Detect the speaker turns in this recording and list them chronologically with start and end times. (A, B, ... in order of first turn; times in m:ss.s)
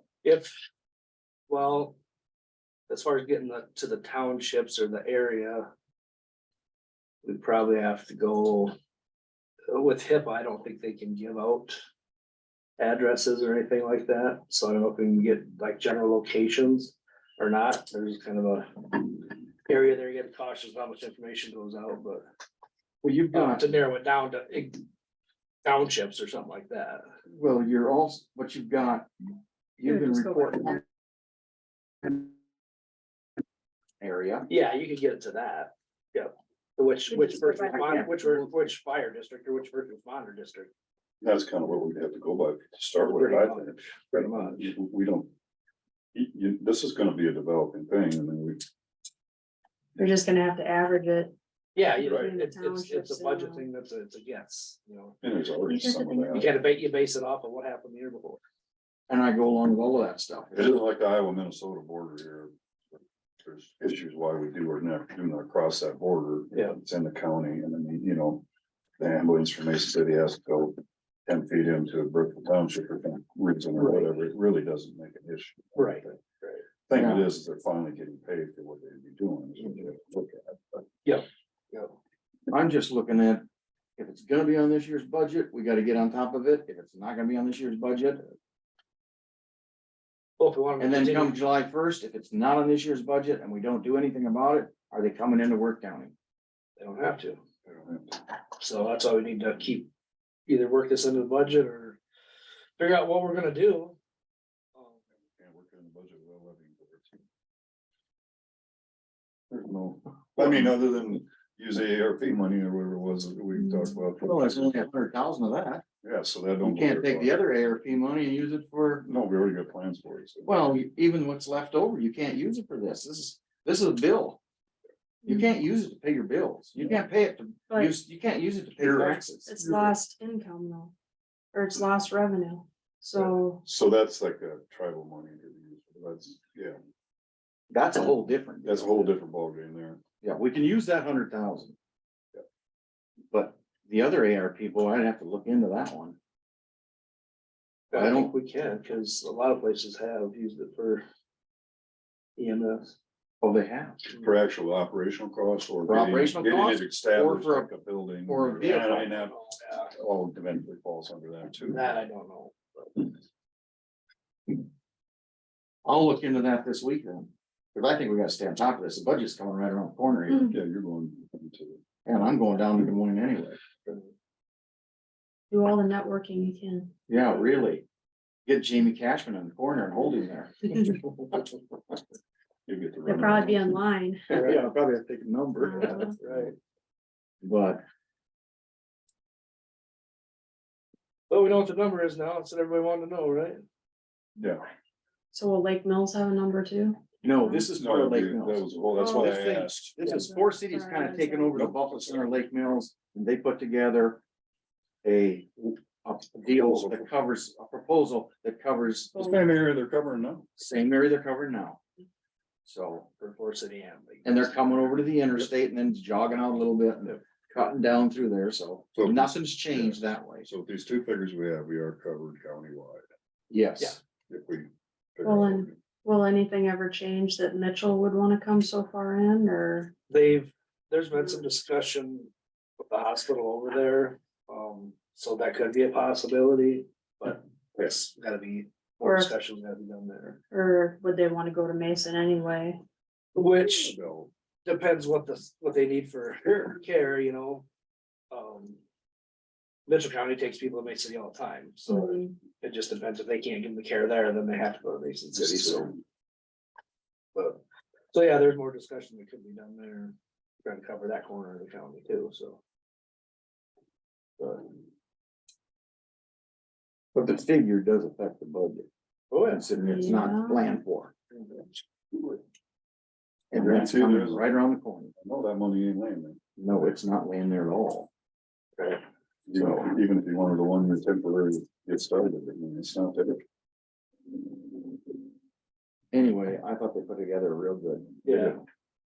0:00.2-0:00.5 A
0:01.5-0:02.0 A
0:02.9-0:05.7 A
0:07.2-0:08.7 A
0:09.7-0:11.8 A
0:12.8-0:22.2 A
0:23.0-0:23.7 B
0:23.3-0:24.8 A
0:25.6-0:27.1 A
0:27.3-0:29.1 B
0:29.8-0:30.8 B
0:29.8-0:30.8 C
0:34.0-0:34.5 B
0:34.5-0:40.7 A
0:37.1-0:38.0 C
0:37.8-0:38.4 B
0:41.2-0:45.3 D
0:43.1-0:44.7 A
0:46.1-0:48.6 D
0:50.0-0:51.3 C
0:51.7-0:55.2 A
0:52.0-0:53.6 C
0:52.0-0:52.3 D
0:55.2-0:56.6 D
0:55.7-0:56.4 C
0:56.3-0:58.4 A
0:59.1-1:00.8 B
1:00.5-1:02.5 D
1:03.4-1:08.4 D
1:06.5-1:06.8 A
1:09.0-1:16.2 D
1:13.8-1:14.1 A
1:15.7-1:16.6 A
1:16.9-1:20.8 D
1:16.9-1:17.3 B
1:21.0-1:21.9 A
1:22.5-1:23.4 B
1:24.0-1:28.2 B
1:30.4-1:31.4 A
1:30.8-1:36.1 B
1:36.8-1:37.4 A
1:37.6-1:38.2 D
1:38.6-1:39.9 A
1:40.5-1:42.0 A
1:42.8-1:44.0 A
1:45.4-1:47.2 D
1:49.5-1:54.9 D
1:50.4-1:50.7 B
1:54.2-1:55.8 B
1:56.0-1:57.4 D
1:56.6-1:59.0 B
1:59.0-2:00.6 D
2:00.4-2:04.4 B
2:05.2-2:05.5 C
2:05.2-2:09.5 B
2:08.8-2:09.9 D
2:09.4-2:10.9 C
2:11.5-2:13.6 C
2:13.2-2:16.8 D
2:17.7-2:19.1 B
2:18.6-2:20.0 D
2:20.2-2:21.7 B
2:23.3-2:26.2 B
2:27.9-2:28.3 B
2:27.9-2:31.0 A
2:32.4-2:33.0 A
2:33.4-2:34.0 B
2:34.1-2:41.9 D
2:35.8-2:37.7 B
2:38.3-2:39.1 B
2:39.0-2:39.9 A
2:41.7-2:43.1 A
2:45.8-2:50.5 B
2:50.3-2:51.8 D
2:52.0-2:53.6 B
2:55.5-2:56.9 C
2:57.1-2:57.8 B
2:58.4-3:00.8 B
3:02.6-3:03.8 D
3:03.0-3:04.2 C
3:04.3-3:06.5 B
3:05.6-3:06.2 C
3:05.8-3:06.5 A
3:07.4-3:07.8 B
3:11.3-3:13.6 A
3:14.4-3:14.6 D
3:15.3-3:17.7 C
3:17.2-3:24.2 B
3:17.7-3:20.0 D
3:19.0-3:19.3 C
3:20.0-3:21.6 C
3:21.5-3:22.2 D
3:25.0-3:29.2 B
3:26.4-3:27.1 D
3:29.1-3:29.5 C
3:29.2-3:30.5 D
3:30.6-3:31.8 B
3:32.6-3:33.1 B
3:33.2-3:34.6 A
3:34.2-3:40.5 B
3:38.9-3:43.0 D
3:43.5-3:44.0 B
3:44.3-3:45.8 D
3:45.2-3:49.9 C
3:50.1-4:00.4 A
3:59.0-3:59.3 C
4:00.5-4:02.8 C
4:03.3-4:03.9 A
4:03.6-4:04.3 D
4:04.6-4:07.6 A
4:08.3-4:08.8 A
4:09.9-4:15.9 A
4:11.9-4:12.3 C
4:17.3-4:17.6 A
4:18.1-4:22.6 A
4:24.4-4:24.6 A
4:27.1-4:28.9 B
4:29.3-4:29.6 A
4:29.4-4:31.1 B
4:29.8-4:30.7 C
4:31.3-4:31.6 A
4:32.1-4:32.4 D
4:33.5-4:35.1 B
4:33.5-4:34.5 D
4:35.2-4:36.4 D
4:36.6-4:38.1 B
4:39.5-4:43.4 D
4:39.5-4:39.9 B
4:46.1-4:48.6 B
4:48.2-4:48.6 A